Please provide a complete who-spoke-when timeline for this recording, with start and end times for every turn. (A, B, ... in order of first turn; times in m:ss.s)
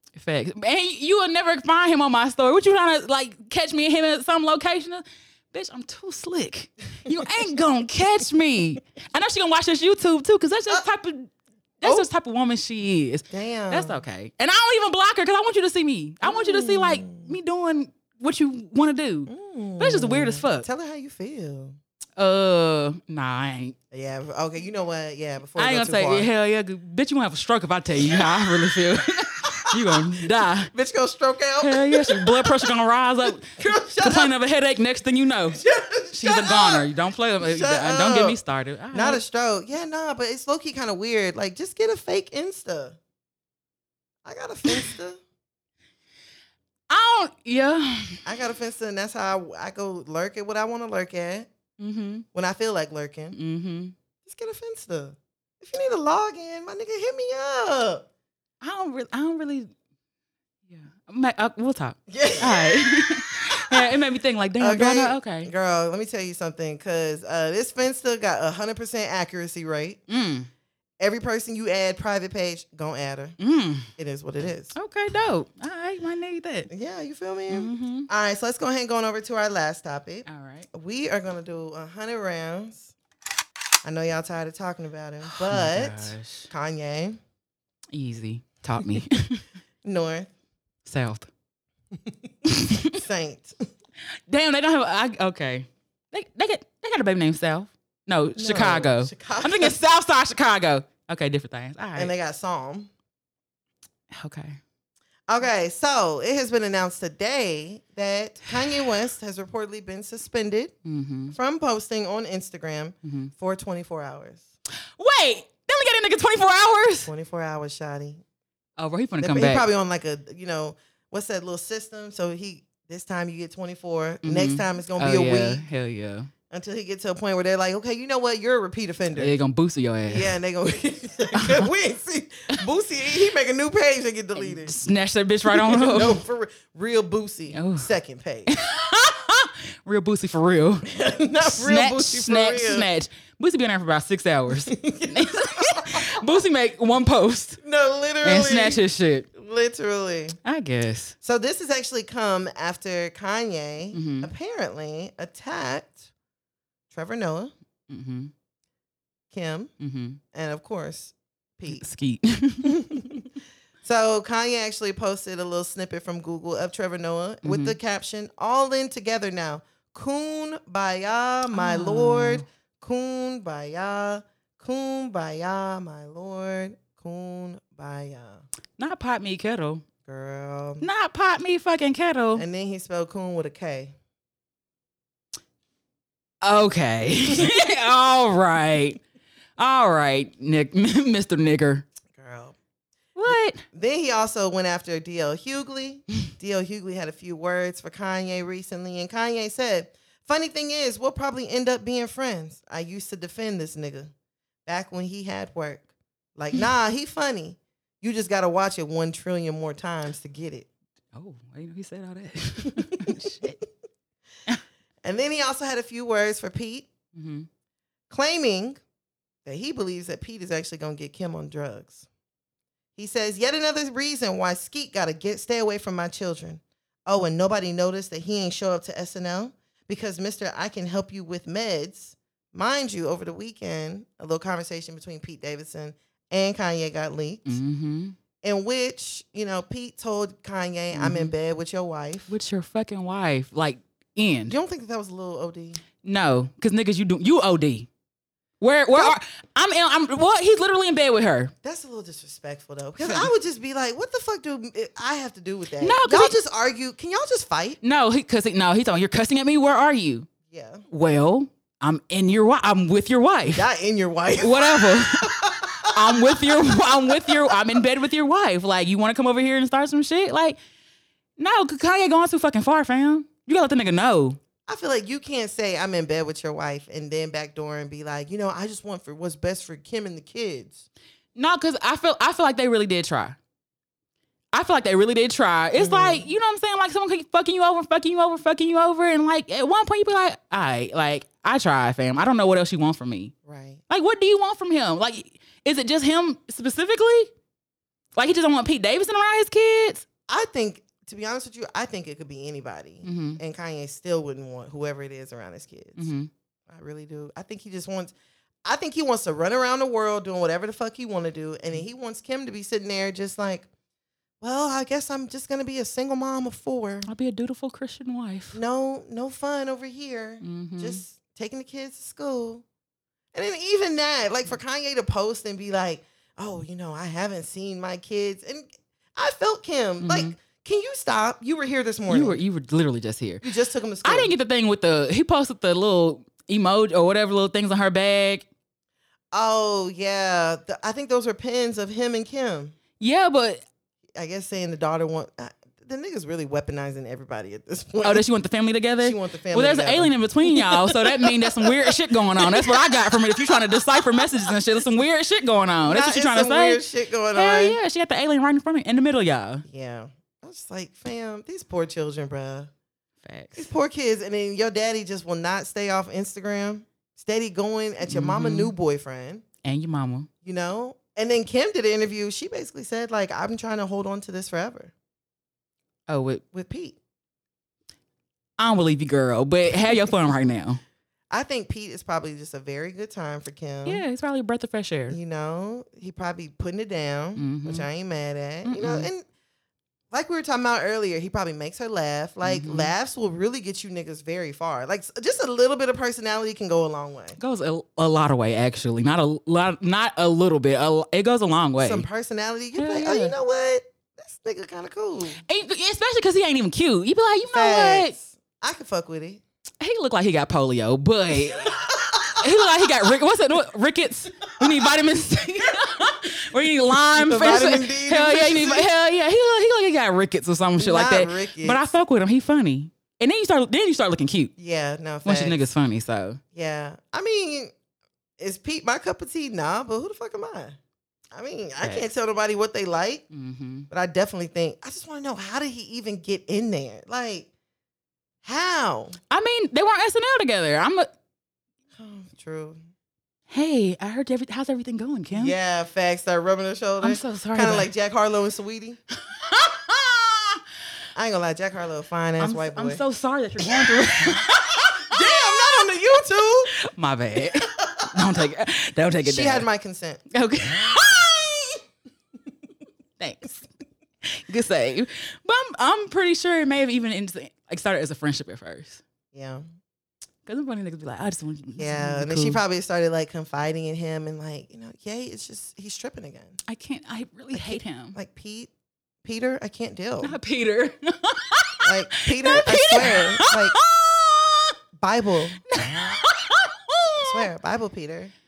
0:00.2-0:20.7 A
0:11.8-0:12.1 B
0:13.3-0:14.0 B
0:16.2-0:17.3 B
0:19.3-0:21.8 B
0:22.2-0:23.8 A
0:23.9-0:26.3 B
0:25.6-0:30.7 A
0:29.7-0:30.0 B
0:30.7-0:32.7 B
0:31.6-0:35.6 A
0:33.2-0:34.3 B
0:35.5-0:36.9 B
0:36.1-0:39.2 A
0:37.4-0:38.4 B
0:38.9-0:43.0 B
0:44.2-0:45.2 B
0:46.9-0:48.2 A
0:48.2-0:51.5 B
0:51.8-0:52.2 A
0:52.3-0:53.4 B
0:53.3-0:53.9 A
0:54.2-0:58.0 B
0:58.6-0:59.7 A
1:00.7-1:05.5 A
1:02.1-1:03.8 B
1:04.6-1:10.0 B
1:10.1-1:10.5 A
1:11.0-1:13.4 B
1:13.4-1:13.9 A
1:14.0-1:14.7 B
1:14.7-1:16.7 A
1:16.7-1:22.9 B
1:17.5-1:18.1 A
1:20.2-1:20.7 A
1:23.8-1:27.2 B
1:25.3-1:26.5 A
1:27.9-1:29.4 A
1:29.8-1:30.3 B
1:30.8-1:31.3 A
1:32.4-1:33.0 A
1:32.9-1:33.5 B
1:34.3-1:42.1 A
1:38.4-1:39.8 B
1:41.9-1:42.9 B
1:44.1-1:44.6 A
1:45.3-1:50.7 B
1:50.8-1:51.3 A
1:51.3-1:54.4 B
1:53.0-1:53.3 A
1:55.0-1:57.1 A
1:57.1-1:58.2 B
1:58.8-1:59.6 A
1:59.2-2:05.6 B
2:04.2-2:06.3 A
2:06.5-2:09.4 B
2:09.1-2:10.3 A
2:10.1-2:14.8 B
2:11.3-2:11.7 A
2:14.4-2:16.2 A
2:15.5-2:18.5 B
2:17.5-2:17.9 A
2:18.5-2:20.9 A
2:20.9-2:22.9 B
2:21.4-2:27.6 A
2:24.7-2:26.2 B
2:27.6-2:28.8 B
2:28.2-2:29.3 A
2:29.3-2:30.4 B
2:30.4-2:31.2 A
2:31.2-2:36.0 B
2:33.9-2:34.3 A
2:36.9-2:37.5 B
2:37.9-2:38.3 A
2:39.3-2:39.7 B
2:39.8-2:40.2 A
2:40.3-2:41.8 B
2:41.7-2:43.2 A
2:42.6-2:43.2 B
2:43.8-2:58.4 B
2:47.4-2:47.8 A
2:51.5-2:52.4 A
2:58.8-2:59.8 A
3:00.0-3:00.8 B
3:00.8-3:02.4 A
3:02.3-3:03.9 B
3:06.4-3:09.0 A
3:09.6-3:11.8 A
3:12.1-3:12.6 B
3:13.2-3:13.6 A
3:13.7-3:24.1 B
3:24.6-3:30.7 B
3:31.1-3:33.6 A
3:32.7-3:33.2 B
3:35.0-3:36.9 B
3:37.1-3:37.5 A
3:38.1-3:38.8 B
3:39.4-3:42.0 B
3:43.0-3:57.6 B
3:57.4-3:58.2 A
3:58.4-4:02.3 B
4:00.9-4:01.3 A
4:02.3-4:04.6 A
4:04.5-4:05.8 B
4:06.0-4:07.9 A
4:08.6-4:11.5 A
4:11.6-4:17.8 B
4:15.8-4:16.4 A
4:17.8-4:20.3 A
4:20.5-4:20.8 B
4:20.9-4:23.7 A
4:23.5-4:27.6 B
4:24.4-4:30.6 A
4:31.4-4:34.4 A
4:34.6-4:40.8 B
4:41.3-4:43.4 A
4:44.5-4:53.3 A
4:45.8-4:46.3 B
4:53.4-4:53.8 B
4:53.9-4:57.3 A
4:58.2-5:00.0 A
5:00.3-5:06.1 B
5:03.0-5:03.4 A
5:06.0-5:06.3 A
5:06.7-5:08.1 B
5:08.6-5:13.7 B
5:14.4-5:17.1 B
5:17.0-5:18.6 A
5:18.5-5:22.6 B
5:20.4-5:21.0 A
5:23.3-5:32.4 B
5:30.0-5:30.4 A
5:32.1-5:33.4 A
5:33.4-5:34.3 B
5:34.0-5:38.4 A
5:39.3-5:42.7 B
5:43.0-5:43.6 A
5:44.1-5:48.2 B
5:48.0-5:59.6 A
5:49.0-5:54.5 B
5:55.8-5:57.8 B
5:59.7-6:02.7 B
6:03.2-6:03.7 A
6:03.6-6:09.4 B
6:08.1-6:08.7 A
6:09.6-6:10.3 A
6:10.4-6:14.9 B
6:16.1-6:16.4 A
6:16.5-6:17.0 B
6:18.6-6:20.8 A
6:21.3-6:24.0 B
6:23.8-6:25.2 A
6:25.1-6:29.2 B
6:27.4-6:27.8 A
6:28.6-6:29.1 A
6:30.1-6:37.4 B
6:32.4-6:32.9 A
6:37.4-6:42.0 A
6:41.8-6:45.4 B
6:42.8-6:43.3 A
6:45.4-6:48.1 A
6:47.4-6:49.4 B
6:49.8-6:51.8 A
6:51.5-6:52.8 B
6:52.4-7:04.5 A
6:57.1-6:58.9 B
7:00.8-7:01.8 B
7:04.6-7:05.6 B
7:05.2-7:06.4 A
7:06.5-7:07.7 B
7:08.4-7:10.8 B
7:11.3-7:13.2 B
7:13.3-7:13.9 A
7:13.9-7:17.5 B
7:18.4-7:19.2 B
7:19.3-7:21.1 A
7:22.0-7:22.8 B
7:23.5-7:25.5 A
7:25.3-7:29.0 B
7:27.0-7:27.9 A
7:29.3-7:30.6 A
7:31.1-7:33.0 B
7:32.4-7:35.9 A
7:33.8-7:34.5 B
7:35.0-7:36.7 B
7:36.8-7:39.6 A
7:37.7-7:38.1 B
7:39.2-7:40.2 B
7:40.3-7:41.7 A
7:43.2-7:43.6 A
7:44.2-7:49.0 A
7:49.3-7:49.6 B
7:50.4-7:52.6 A
7:51.8-7:56.6 B
7:56.7-7:58.2 A
7:57.5-7:58.7 B
7:59.2-8:00.3 B
8:00.2-8:04.7 A
8:01.8-8:03.8 B
8:05.0-8:05.6 B
8:05.7-8:07.4 A
8:07.2-8:08.3 B